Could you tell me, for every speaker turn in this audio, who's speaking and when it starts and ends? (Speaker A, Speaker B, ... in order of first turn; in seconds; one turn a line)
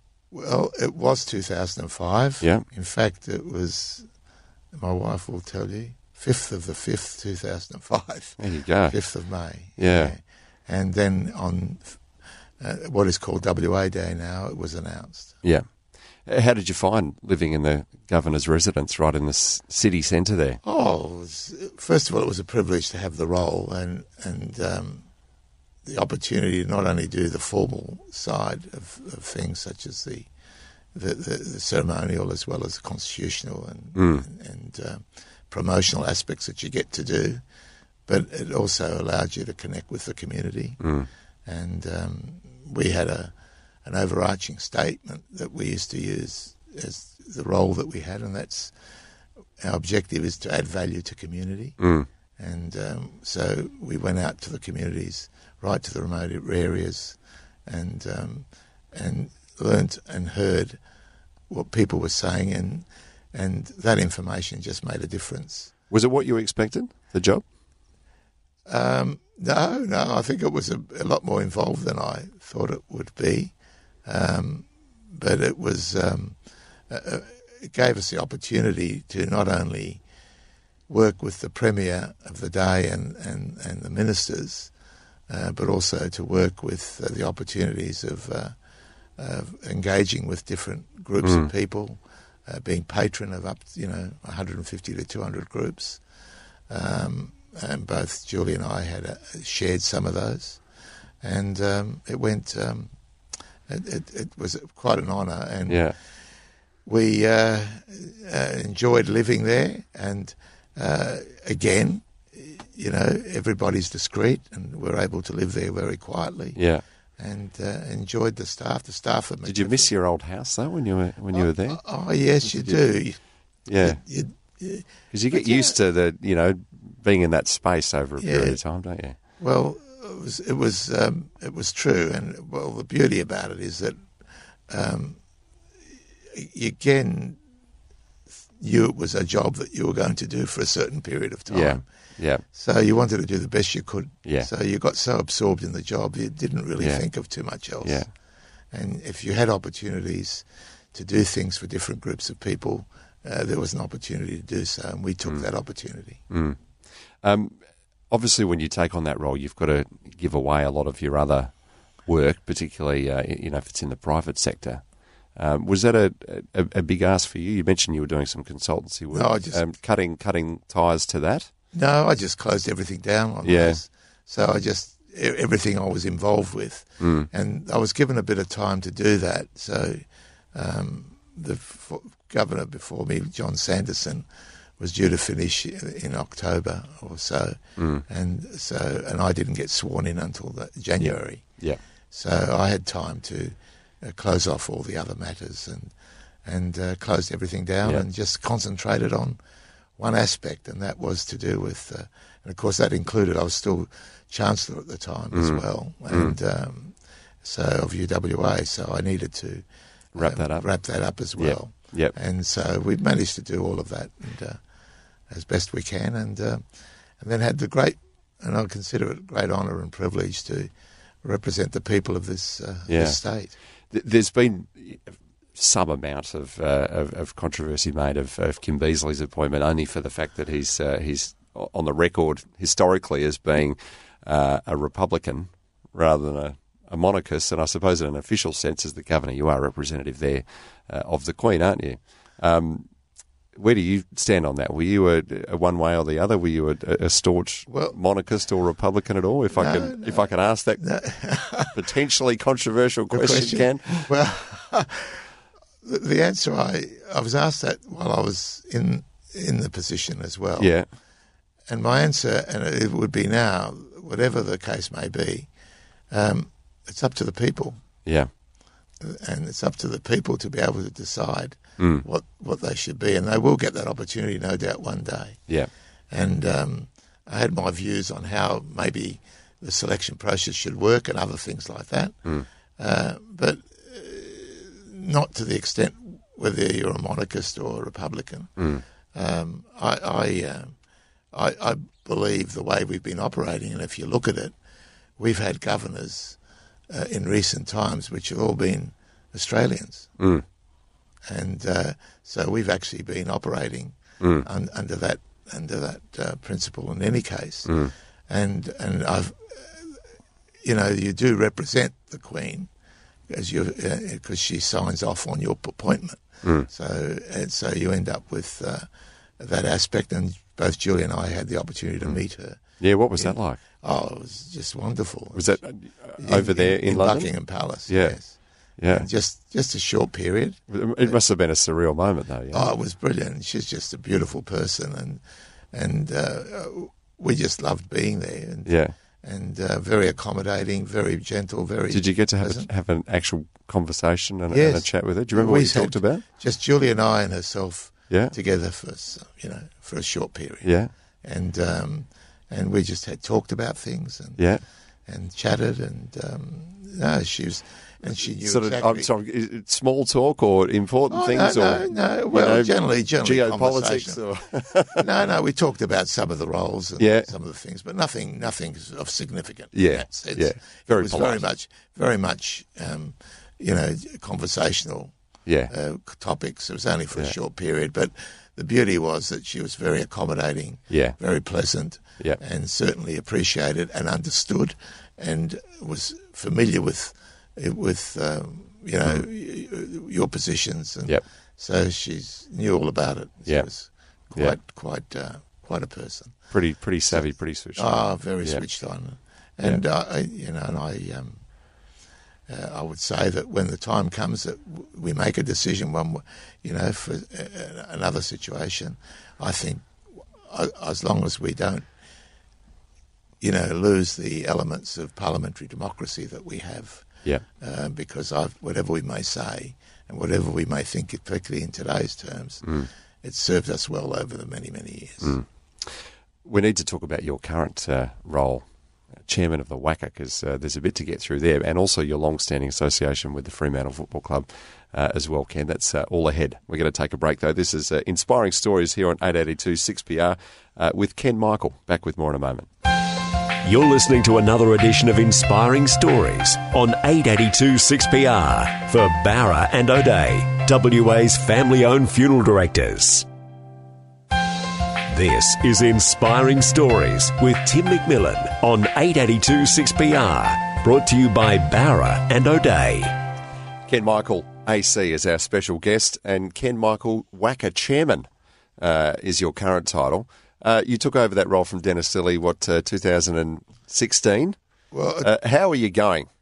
Speaker A: 0.3-4.1
Speaker A: 4.7-12.0
Speaker B: 8.4-9.0
Speaker B: 9.8-10.1
Speaker A: 12.6-15.4
Speaker B: 15.4-15.7
Speaker B: 16.2-20.6
Speaker A: 20.6-25.1
Speaker A: 25.8-30.3
Speaker A: 30.9-37.4
Speaker B: 34.0-34.3
Speaker A: 38.1-40.8
Speaker B: 40.8-41.1
Speaker A: 41.5-43.3
Speaker A: 43.8-48.7
Speaker A: 49.6-51.8
Speaker B: 51.8-52.1
Speaker A: 52.4-60.8
Speaker A: 61.5-65.7
Speaker B: 65.9-67.4
Speaker A: 68.7-73.5
Speaker A: 74.0-76.4
Speaker A: 76.9-80.0
Speaker A: 80.9-84.7
Speaker A: 85.3-88.5
Speaker A: 89.2-96.0
Speaker B: 91.2-91.5
Speaker A: 96.7-100.6
Speaker A: 101.2-102.9
Speaker A: 103.7-105.8
Speaker B: 105.7-106.0
Speaker A: 106.8-116.6
Speaker B: 116.5-116.8
Speaker A: 117.2-119.9
Speaker B: 119.4-121.8
Speaker A: 121.3-123.2
Speaker B: 122.5-122.8
Speaker B: 123.7-124.0
Speaker A: 123.8-125.8
Speaker B: 125.1-129.2
Speaker A: 128.2-128.6
Speaker A: 129.4-134.0
Speaker A: 134.7-135.2
Speaker A: 136.3-137.4
Speaker A: 138.6-141.8
Speaker B: 141.5-142.4
Speaker A: 142.5-148.0
Speaker B: 144.2-144.5
Speaker B: 146.8-147.0
Speaker B: 147.8-148.1
Speaker A: 148.7-156.2
Speaker B: 156.3-156.6
Speaker B: 157.2-171.5
Speaker A: 169.1-169.6
Speaker A: 171.7-184.3
Speaker B: 173.4-173.8
Speaker B: 177.0-177.3
Speaker A: 184.8-191.5
Speaker B: 187.8-188.0
Speaker B: 191.0-191.8
Speaker A: 192.1-195.9
Speaker A: 196.4-199.4
Speaker A: 200.0-209.6
Speaker B: 205.3-206.3
Speaker B: 210.1-210.7
Speaker A: 210.2-214.6
Speaker B: 211.3-212.1
Speaker A: 215.3-216.6
Speaker A: 217.2-220.7
Speaker A: 221.2-223.6
Speaker B: 222.9-223.2
Speaker B: 223.9-242.9
Speaker B: 243.5-250.8
Speaker A: 247.7-247.9
Speaker A: 249.5-251.8
Speaker B: 251.7-254.1
Speaker A: 253.1-255.3
Speaker A: 255.8-260.8
Speaker B: 260.6-260.9
Speaker A: 261.7-265.5
Speaker A: 266.1-267.8
Speaker B: 268.0-268.3
Speaker A: 269.0-275.5
Speaker B: 271.8-272.0
Speaker A: 276.1-282.2
Speaker A: 282.8-288.6
Speaker B: 288.6-288.8
Speaker A: 289.1-290.7
Speaker A: 291.3-294.5
Speaker A: 295.2-296.4
Speaker A: 296.9-300.1
Speaker B: 300.2-300.4
Speaker A: 301.3-310.0
Speaker B: 304.2-304.4
Speaker B: 307.6-307.9
Speaker A: 310.6-312.7
Speaker A: 313.3-318.9
Speaker B: 316.4-316.7
Speaker A: 319.4-322.6
Speaker B: 322.8-323.6
Speaker A: 323.2-325.6
Speaker B: 325.3-327.3
Speaker A: 326.2-328.3
Speaker B: 327.9-328.2
Speaker B: 328.8-329.1
Speaker A: 328.9-331.2
Speaker B: 330.7-332.7
Speaker A: 332.5-335.2
Speaker A: 335.7-342.7
Speaker B: 338.6-338.9
Speaker B: 341.9-346.2
Speaker A: 344.5-350.7
Speaker B: 348.1-348.4
Speaker B: 350.6-350.9
Speaker A: 351.2-354.4
Speaker B: 354.4-354.6
Speaker A: 355.1-359.1
Speaker B: 358.4-365.1
Speaker A: 361.1-364.2
Speaker A: 364.9-375.1
Speaker B: 367.0-367.3
Speaker B: 369.7-371.4
Speaker B: 375.4-375.7
Speaker A: 375.7-396.4
Speaker B: 380.9-381.2
Speaker B: 396.5-398.6
Speaker A: 397.1-401.4
Speaker A: 402.5-411.9
Speaker A: 413.4-417.1
Speaker A: 417.6-422.7
Speaker B: 422.6-422.9
Speaker A: 423.2-425.4
Speaker B: 425.2-442.7
Speaker C: 443.6-453.3
Speaker C: 455.1-463.1
Speaker B: 463.9-474.6
Speaker A: 474.9-475.3
Speaker B: 475.2-476.3